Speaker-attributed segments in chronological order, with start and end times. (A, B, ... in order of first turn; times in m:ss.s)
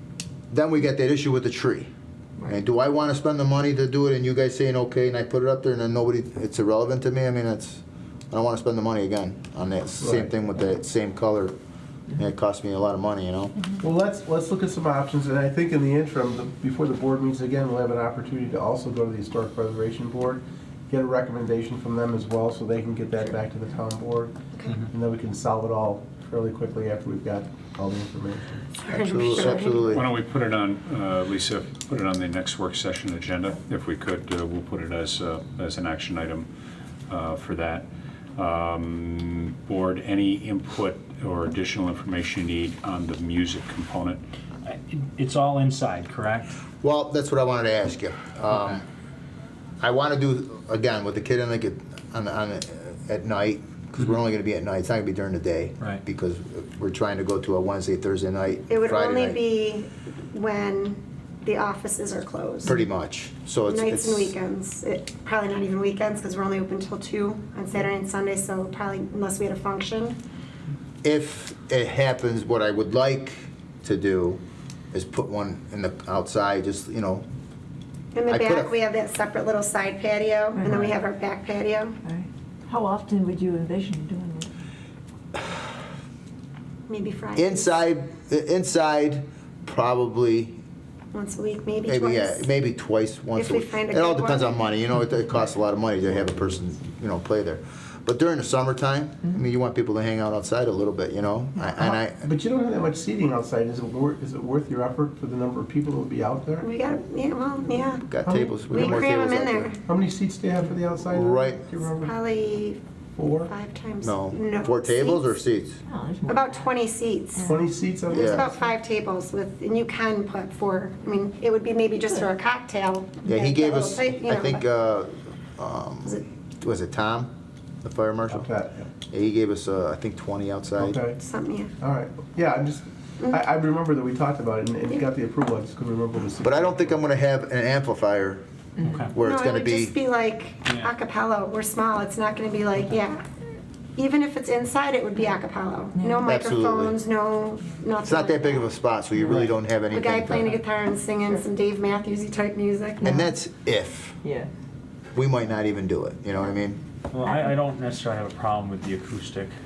0:00.5-0:01.9 A
0:02.4-0:11.5 A
0:10.0-0:10.3 B
0:12.1-0:13.5 A
0:13.8-0:28.6 B
0:24.5-0:24.8 C
0:28.8-0:29.8 C
0:28.9-0:30.0 A
0:29.8-0:36.5 D
0:37.1-0:44.2 D
0:44.6-0:46.5 E
0:46.8-0:48.8 A
0:48.5-0:48.8 E
0:49.8-0:59.4 A
0:58.7-1:02.8 C
1:02.6-1:04.3 A
1:03.6-1:10.2 C
1:11.0-1:14.4 A
1:14.9-1:17.2 A
1:18.1-1:22.0 C
1:18.3-1:18.7 A
1:22.0-1:24.5 F
1:26.9-1:27.8 C
1:27.4-1:30.6 A
1:31.1-1:32.5 C
1:31.9-1:42.2 A
1:33.3-1:34.6 C
1:41.8-1:46.7 B
1:46.6-1:48.1 C
1:48.1-1:49.7 A
1:48.2-1:49.3 B
1:48.7-1:49.8 C
1:49.8-1:52.2 B
1:51.1-1:51.6 A
1:52.0-1:52.8 C
1:53.2-1:53.5 B
1:53.4-1:55.3 C
1:54.0-1:55.8 A
1:55.8-1:56.6 F
1:56.3-2:04.6 C
1:57.4-1:58.5 B
1:58.1-1:58.5 A
2:03.2-2:07.3 A
2:07.8-2:08.5 A
2:08.3-2:08.9 B
2:09.1-2:11.0 A
2:10.8-2:11.2 B
2:11.2-2:11.7 C
2:11.8-2:17.0 B
2:16.4-2:18.4 A
2:18.8-2:19.1 E
2:19.1-2:19.9 A
2:19.2-2:23.3 C
2:24.0-2:28.7 C
2:26.2-2:27.0 A
2:28.0-2:30.6 A
2:29.9-2:33.2 C
2:33.0-2:34.2 A
2:34.2-2:34.5 F
2:35.2-2:36.8 A
2:37.1-2:39.5 E